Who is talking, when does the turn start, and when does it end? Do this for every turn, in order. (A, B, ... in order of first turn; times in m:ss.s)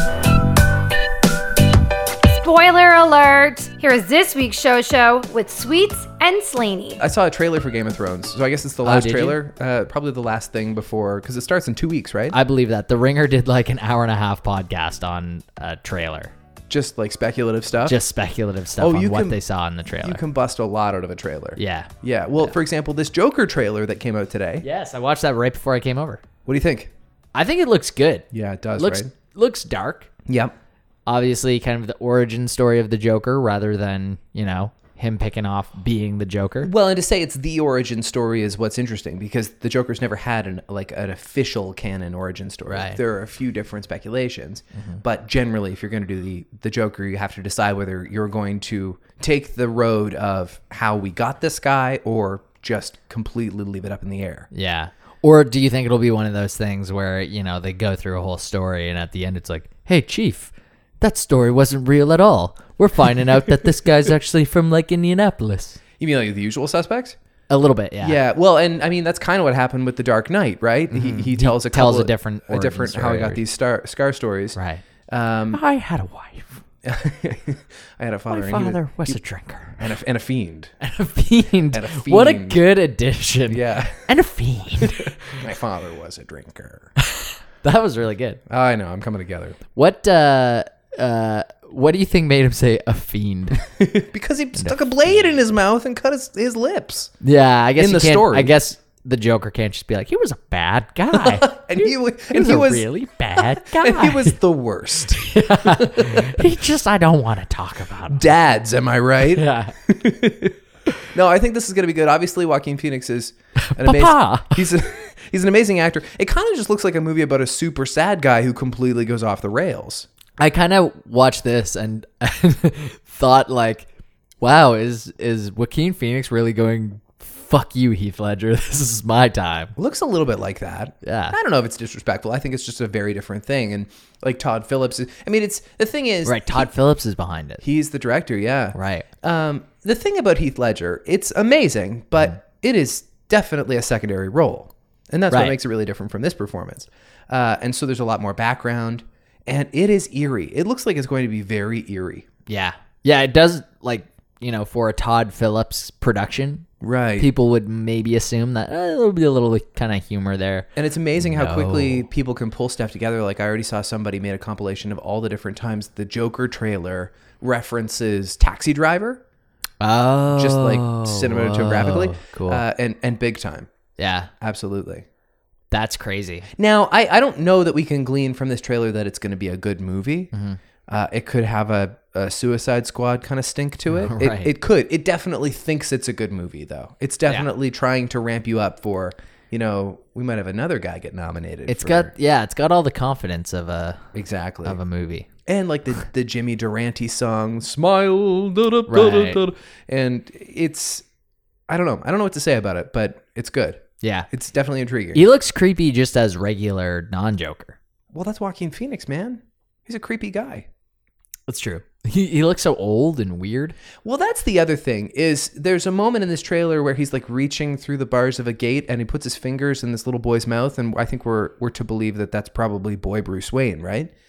0:02.3-0:07.0 A
0:07.0-0:12.4 B
0:08.8-0:09.4 C
0:12.3-0:16.3 C
0:16.7-0:18.0 B
0:17.9-0:20.2 C
0:18.8-0:19.4 B
0:20.0-0:24.7 B
0:21.6-0:21.9 C
0:24.6-0:26.2 C
0:26.5-0:26.9 B
0:27.3-0:30.1 C
0:28.3-0:29.1 B
0:30.3-0:30.6 B
0:31.1-0:36.7 C
0:36.6-0:54.5 B
0:42.7-0:43.0 C
0:44.7-0:45.0 C
0:54.5-1:05.8 C
1:06.0-1:07.2 B
1:07.5-1:08.2 C
1:08.0-1:15.6 B
1:10.9-1:13.4 C
1:14.6-1:14.8 C
1:15.5-1:16.6 C
1:16.8-1:19.2 B
1:18.3-1:19.8 C
1:19.8-1:20.7 B
1:20.8-1:25.4 C
1:21.7-1:22.6 B
1:23.5-1:24.0 B
1:24.8-1:26.9 B
1:27.0-1:28.4 C
1:28.5-1:29.6 B
1:29.8-1:33.6 C
1:33.7-1:37.1 B
1:34.6-1:35.3 C
1:37.2-1:44.4 C
1:37.8-1:38.5 B
1:41.1-1:46.4 B
1:45.2-1:48.3 C
1:48.1-1:50.6 B
1:49.3-1:49.8 C
1:51.1-2:00.1 B
1:53.6-1:54.7 C
2:00.4-2:03.9 C
2:04.4-2:09.8 C
2:09.8-2:16.7 B
2:11.0-2:11.4 C
2:16.2-2:17.6 C
2:17.6-2:32.3 B
2:18.8-2:19.1 C
2:25.3-2:25.6 C
2:32.5-2:36.7 C
2:36.8-2:37.3 B
2:37.2-2:42.1 C
2:40.8-2:49.2 B
2:49.8-2:52.6 C
2:50.3-2:53.7 B
2:54.0-2:54.3 C
2:54.4-2:55.1 B
2:55.7-2:56.5 C
2:56.6-3:00.3 B
3:00.3-3:00.6 C
3:00.9-3:12.1 B
3:03.9-3:04.5 C
3:11.7-3:14.1 C
3:14.1-3:14.8 B
3:14.6-3:15.3 C
3:15.5-3:21.0 B
3:18.9-3:19.4 C
3:21.7-3:25.2 B
3:24.0-3:24.3 C
3:25.1-3:27.8 C
3:28.1-3:30.7 B
3:31.5-3:33.8 C
3:34.0-3:44.1 B